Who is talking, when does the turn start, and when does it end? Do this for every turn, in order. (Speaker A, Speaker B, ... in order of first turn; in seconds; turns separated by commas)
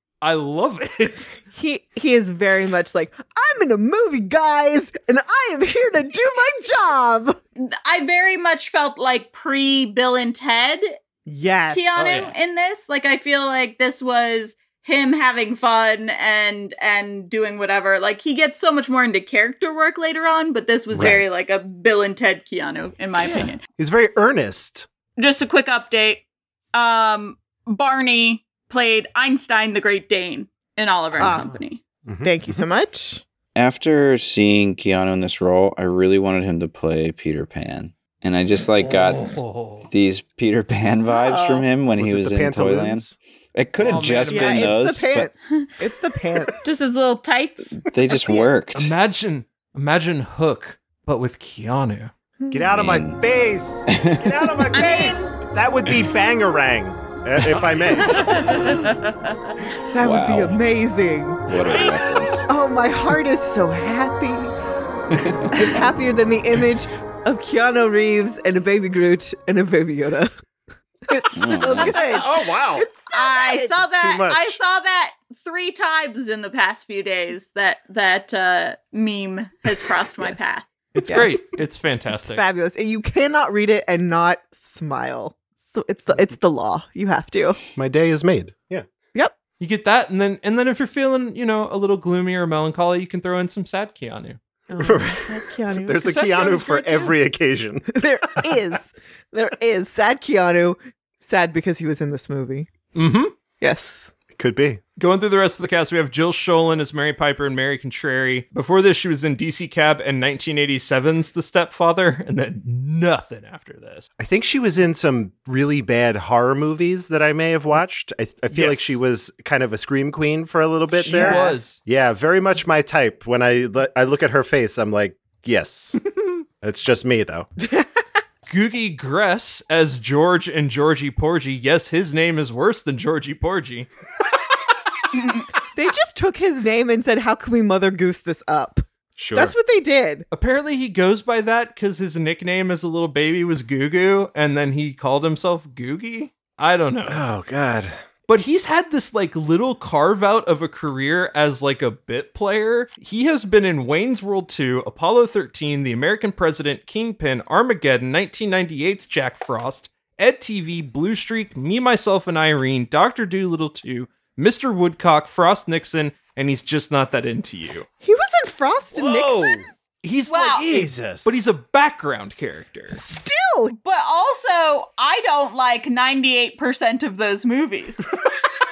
Speaker A: 0.2-1.4, Speaker B: 1.5-7.4, Speaker C: 7.6-10.9, Speaker B: 11.2-11.9, Speaker C: 11.7-23.6, Speaker A: 12.0-12.3, Speaker D: 20.9-21.2, Speaker D: 23.8-24.9, Speaker C: 25.2-26.2, Speaker C: 26.7-31.8, Speaker D: 31.2-31.4, Speaker B: 31.2-31.5, Speaker D: 32.0-32.6, Speaker B: 32.2-33.2, Speaker E: 33.5-39.2, Speaker A: 38.8-39.9, Speaker E: 39.8-45.3, Speaker C: 41.0-41.6, Speaker D: 42.0-43.2, Speaker A: 43.8-44.8, Speaker B: 44.3-46.6, Speaker C: 46.6-47.8, Speaker E: 47.9-48.9, Speaker A: 48.7-52.1, Speaker B: 52.4-52.6, Speaker D: 52.5-58.5, Speaker E: 52.7-53.2, Speaker E: 53.9-54.2, Speaker C: 54.7-55.3, Speaker A: 57.5-58.4, Speaker C: 58.2-59.5, Speaker B: 59.9-61.6, Speaker E: 60.0-60.6, Speaker E: 61.5-62.5, Speaker A: 61.6-62.4, Speaker B: 62.5-64.5, Speaker E: 65.1-65.6, Speaker B: 65.5-70.3, Speaker B: 71.1-73.9, Speaker E: 71.3-72.1, Speaker D: 72.0-72.8, Speaker C: 73.1-80.7, Speaker D: 74.0-74.6, Speaker A: 80.9-82.4, Speaker B: 81.0-81.6, Speaker B: 82.1-87.6, Speaker D: 87.8-88.8, Speaker A: 89.6-94.4, Speaker B: 94.7-96.2, Speaker D: 94.8-98.5, Speaker A: 96.0-97.2, Speaker B: 97.9-102.7, Speaker A: 102.9-103.3, Speaker B: 103.6-104.1, Speaker D: 104.3-104.8, Speaker A: 105.0-114.1, Speaker D: 114.2-126.0, Speaker A: 118.5-119.0, Speaker A: 121.0-121.8, Speaker B: 121.0-121.6, Speaker D: 126.6-127.5, Speaker B: 127.6-128.0, Speaker A: 128.5-133.9, Speaker B: 135.7-140.2, Speaker D: 139.2-139.5, Speaker A: 140.3-147.2, Speaker D: 147.1-147.9, Speaker A: 148.3-167.9, Speaker B: 168.0-169.7, Speaker A: 169.0-173.0, Speaker C: 170.3-170.7, Speaker D: 170.5-171.4, Speaker B: 172.9-173.7, Speaker C: 173.8-178.1